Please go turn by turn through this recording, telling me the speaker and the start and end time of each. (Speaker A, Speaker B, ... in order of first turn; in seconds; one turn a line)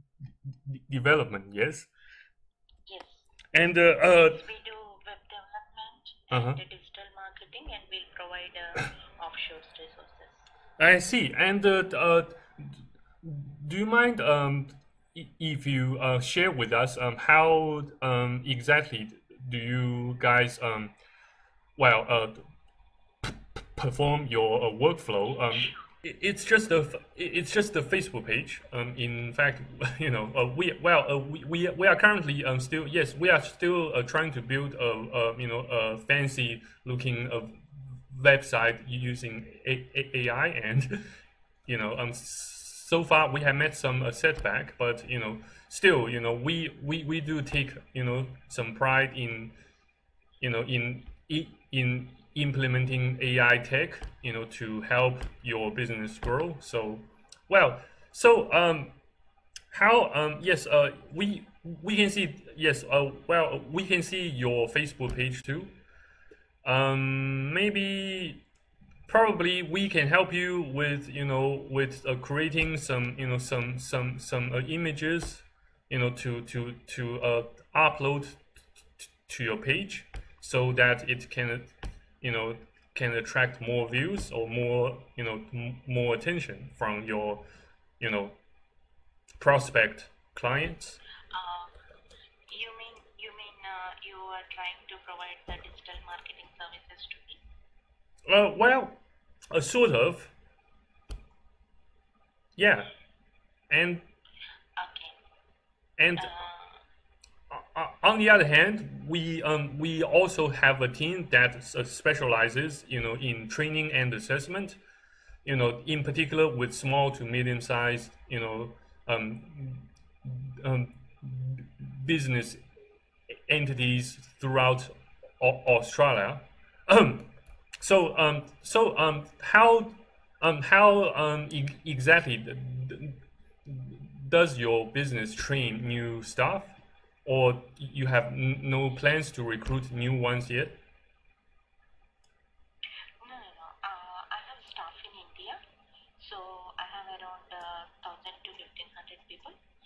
Speaker A: 0.5-1.9
Speaker B: 2.9-3.3
Speaker A: 3.5-4.4
Speaker B: 4.1-10.5
Speaker A: 6.3-6.6
Speaker A: 10.8-20.9
Speaker A: 21.8-22.4
Speaker A: 23.8-41.0
Speaker A: 41.7-49.6
Speaker A: 50.4-59.0
Speaker A: 59.7-65.8
Speaker A: 66.6-68.4
Speaker A: 69.1-78.4
Speaker A: 79.0-87.4
Speaker A: 88.0-88.4
Speaker A: 89.4-91.0
Speaker B: 91.3-91.7
Speaker B: 92.5-97.4
Speaker A: 98.3-99.0
Speaker A: 99.5-100.3
Speaker A: 102.6-102.9
Speaker A: 103.7-104.1
Speaker B: 104.8-105.2
Speaker A: 106.0-106.3
Speaker B: 106.2-106.8
Speaker A: 107.5-114.8
Speaker A: 115.4-122.6
Speaker A: 123.3-140.8
Speaker B: 143.2-145.6
Speaker B: 146.2-149.6